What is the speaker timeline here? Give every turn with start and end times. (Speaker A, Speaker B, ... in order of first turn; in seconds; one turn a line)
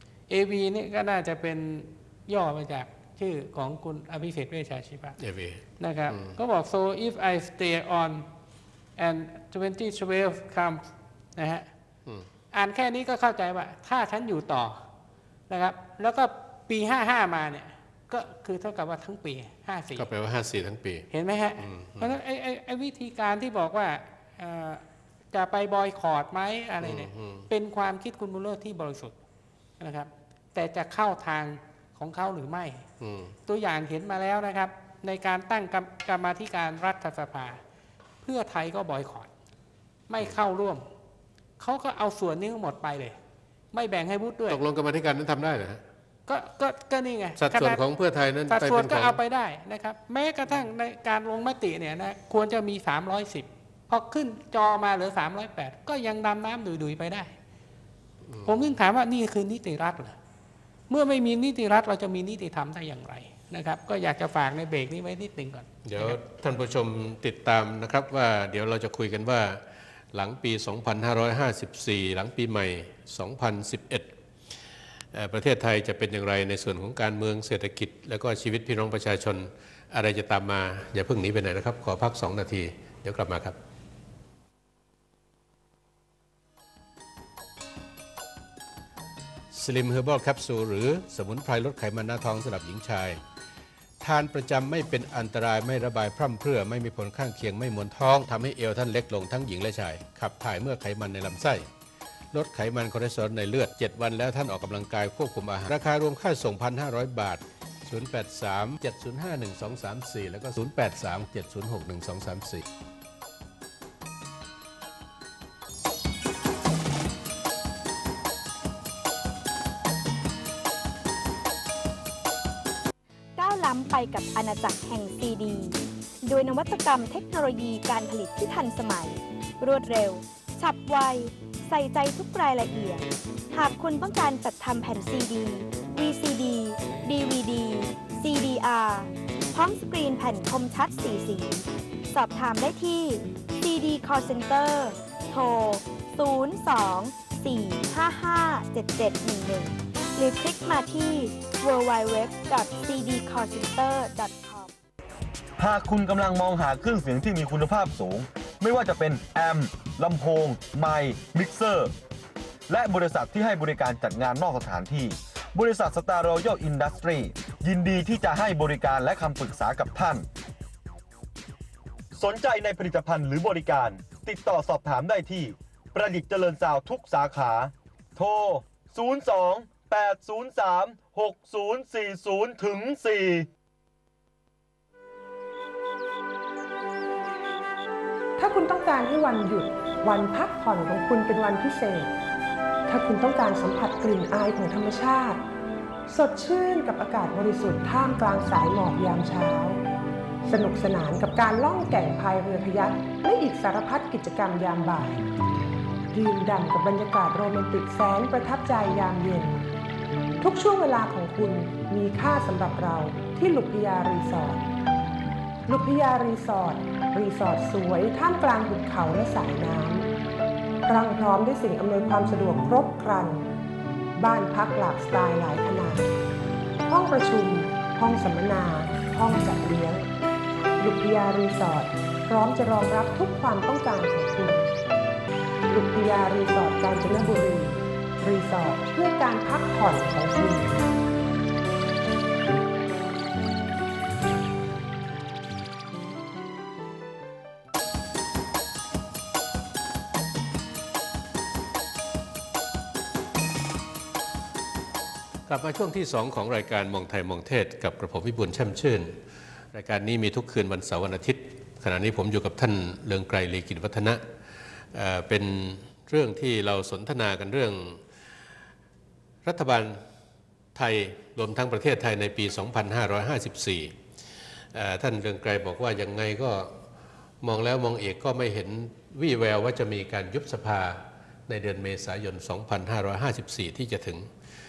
Speaker A: 0.3-5.2
Speaker B: 5.2-6.4
Speaker A: 5.8-8.2
Speaker A: 9.0-10.8
Speaker A: 11.4-11.7
Speaker A: 12.5-14.8
Speaker A: 15.5-20.1
Speaker B: 19.9-22.2
Speaker A: 21.1-29.1
Speaker B: 26.8-27.5
Speaker A: 29.8-32.9
Speaker B: 33.0-33.4
Speaker A: 33.5-37.6
Speaker A: 38.2-39.3
Speaker A: 40.1-40.9
Speaker A: 41.6-43.2
Speaker A: 43.7-44.6
Speaker B: 44.5-45.8
Speaker A: 46.3-47.8
Speaker B: 47.4-49.2
Speaker A: 48.5-57.3
Speaker B: 58.3-58.7
Speaker A: 58.5-60.2
Speaker A: 60.9-66.2
Speaker B: 65.8-74.1
Speaker B: 75.1-83.6
Speaker B: 89.5-93.2
Speaker B: 94.0-101.7
Speaker B: 102.3-112.7
Speaker C: 123.4-154.7
Speaker D: 155.6-161.9
Speaker D: 162.7-170.3
Speaker D: 172.1-183.5
Speaker E: 188.4-192.1
Speaker E: 192.9-195.4
Speaker E: 196.1-199.8
Speaker E: 200.4-205.2
Speaker E: 206.1-209.7
Speaker E: 210.4-214.6
Speaker E: 215.7-220.1
Speaker E: 220.9-223.5
Speaker E: 224.2-226.1
Speaker E: 226.9-230.1
Speaker E: 230.8-234.7
Speaker E: 235.7-240.9
Speaker B: 255.5-259.2
Speaker B: 259.7-264.2
Speaker B: 264.9-268.0
Speaker B: 269.4-270.0
Speaker B: 270.8-273.9
Speaker B: 274.7-276.7
Speaker B: 277.4-284.3